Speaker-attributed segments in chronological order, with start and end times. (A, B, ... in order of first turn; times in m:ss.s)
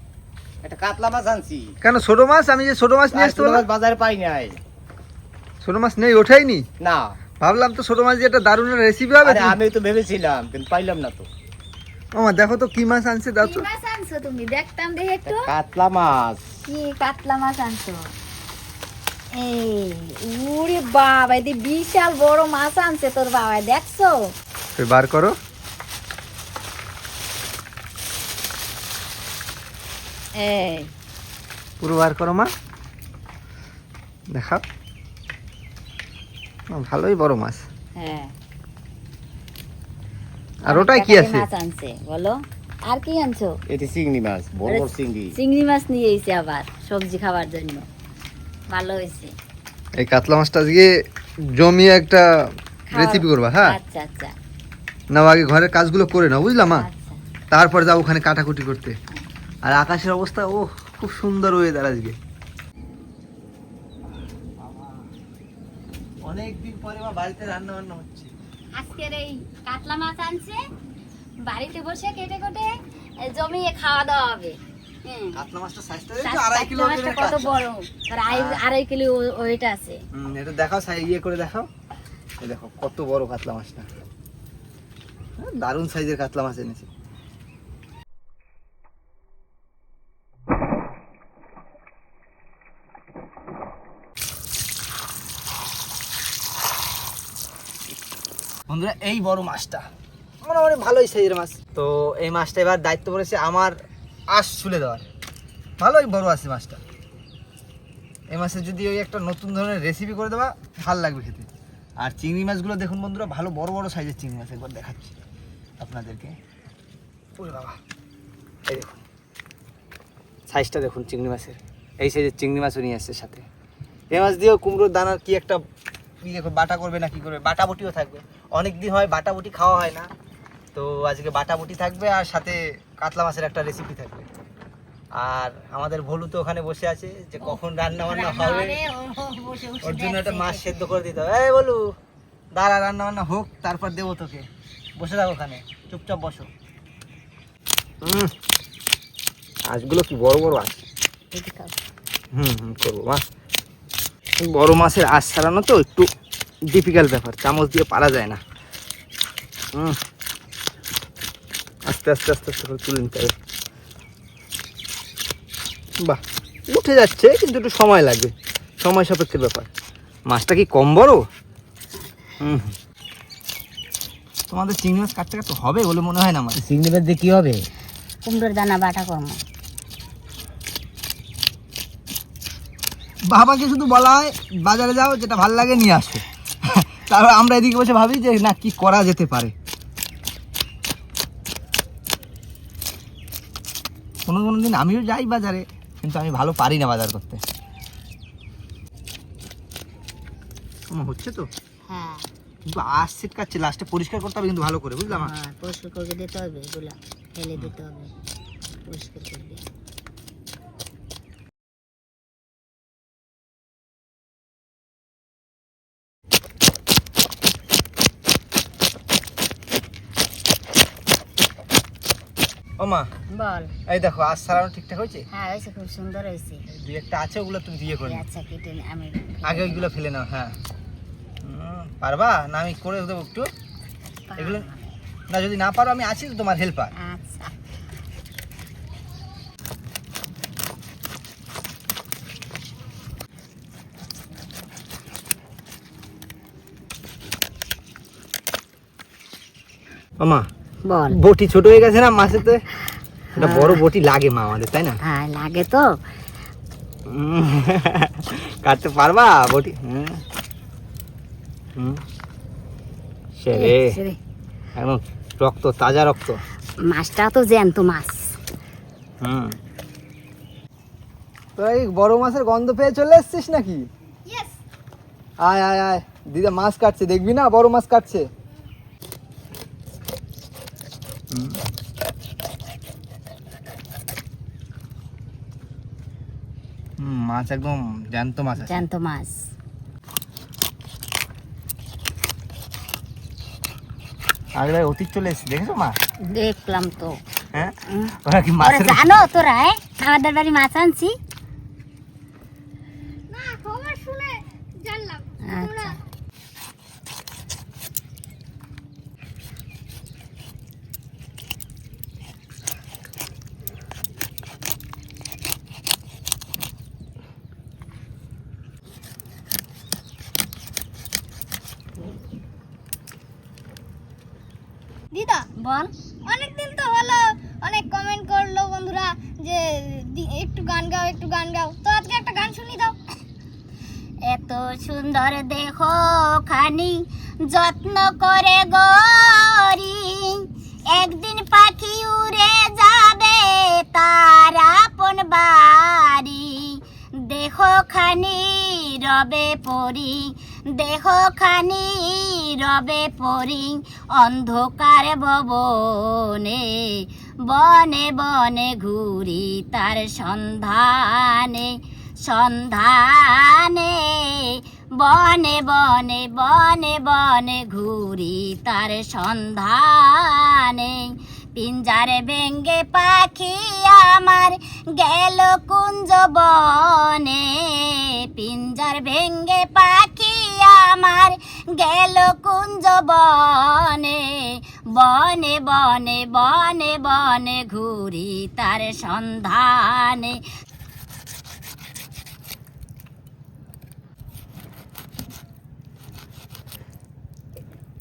0:00.6-0:01.7 A
0:01.8-0:03.7 B
0:03.1-0:04.6 A
0:05.6-0:06.7 B
0:06.8-0:07.2 A
0:07.4-0:09.6 B
0:09.2-0:11.3 A
0:12.2-0:13.7 B
0:13.4-0:15.5 C
0:15.2-0:16.4 A
0:16.6-0:18.1 C
0:19.4-0:24.3 C
0:24.8-0:25.4 B
0:30.4-0:30.9 C
0:31.8-0:32.5 B
0:34.3-0:34.6 B
0:36.7-0:37.7 B
0:38.0-0:38.3 C
0:40.7-0:41.5 B
0:40.7-0:43.6 C
0:43.7-0:45.3 A
0:44.7-0:47.8 C
0:48.7-0:49.3 C
0:50.0-0:50.9 B
0:51.6-0:52.3 B
0:52.9-0:54.3 C
0:52.9-0:53.7 B
0:55.1-0:56.9 B
0:56.7-0:57.2 C
0:57.5-0:59.0 B
0:59.7-1:02.2 B
1:04.6-1:05.1 B
1:06.2-1:08.3 B
1:08.8-1:10.6 C
1:11.5-1:15.4 C
1:15.4-1:17.6 B
1:16.2-1:20.0 C
1:18.3-1:18.6 B
1:20.1-1:21.7 B
1:22.4-1:23.9 B
1:25.4-1:26.9 B
1:38.7-1:39.8 B
1:40.4-1:43.8 B
1:44.3-1:45.0 B
1:45.8-1:46.8 B
1:48.3-1:51.5 B
1:52.0-1:55.2 B
1:55.8-1:56.4 B
1:57.4-1:57.8 B
1:58.7-1:59.0 B
2:00.5-2:03.4 B
2:04.1-2:05.6 B
2:06.2-2:10.1 B
2:10.7-2:14.3 B
2:15.2-2:18.8 B
2:17.4-2:20.6 C
2:19.8-2:21.9 B
2:22.6-2:24.5 B
2:25.0-2:26.5 B
2:28.0-2:28.3 B
2:29.7-2:30.8 B
2:31.3-2:31.8 C
2:32.3-2:33.2 B
2:34.4-2:36.1 B
2:36.7-2:38.4 B
2:41.9-2:43.4 B
2:46.0-2:49.7 B
2:50.3-2:51.2 B
2:52.4-2:52.8 B
2:54.5-2:56.6 B
2:56.6-2:57.6 A
2:58.2-2:59.4 C
3:03.3-3:09.5 B
3:14.3-3:17.4 B
3:20.9-3:21.5 B
3:21.9-3:22.2 C
3:22.6-3:25.3 B
3:25.1-3:28.1 C
3:28.9-3:29.6 C
3:42.8-3:43.1 B
3:43.3-3:43.7 C
3:43.9-3:45.3 B
3:45.3-3:46.6 C
3:46.7-3:48.2 B
3:48.1-3:49.9 C
3:49.4-3:50.6 B
3:51.4-3:53.5 B
3:54.3-3:55.0 C
3:54.4-3:54.7 B
3:55.3-3:56.9 B
3:57.0-3:57.5 C
4:10.2-4:10.5 B
4:10.8-4:11.2 C
4:11.1-4:12.6 B
4:13.4-4:15.0 B
4:13.4-4:13.8 C
4:15.1-4:15.9 C
4:17.1-4:20.2 B
4:21.8-4:22.0 B
4:23.4-4:24.0 B
4:23.5-4:24.2 C
4:24.8-4:26.4 B
4:26.9-4:28.4 C
4:29.2-4:29.6 B
4:31.6-4:33.9 B
4:35.4-4:38.3 B
4:41.3-4:41.6 B
4:47.0-4:48.8 B
4:48.6-4:49.4 C
4:54.6-4:56.0 B
4:56.3-4:57.2 C
4:57.5-4:59.1 B
4:57.9-5:01.2 C
5:03.3-5:05.8 D
5:05.4-5:06.0 C
5:25.1-5:25.5 D
5:25.6-5:25.9 C
5:26.3-5:33.0 D
5:34.2-6:24.4 C
6:25.0-6:30.4 C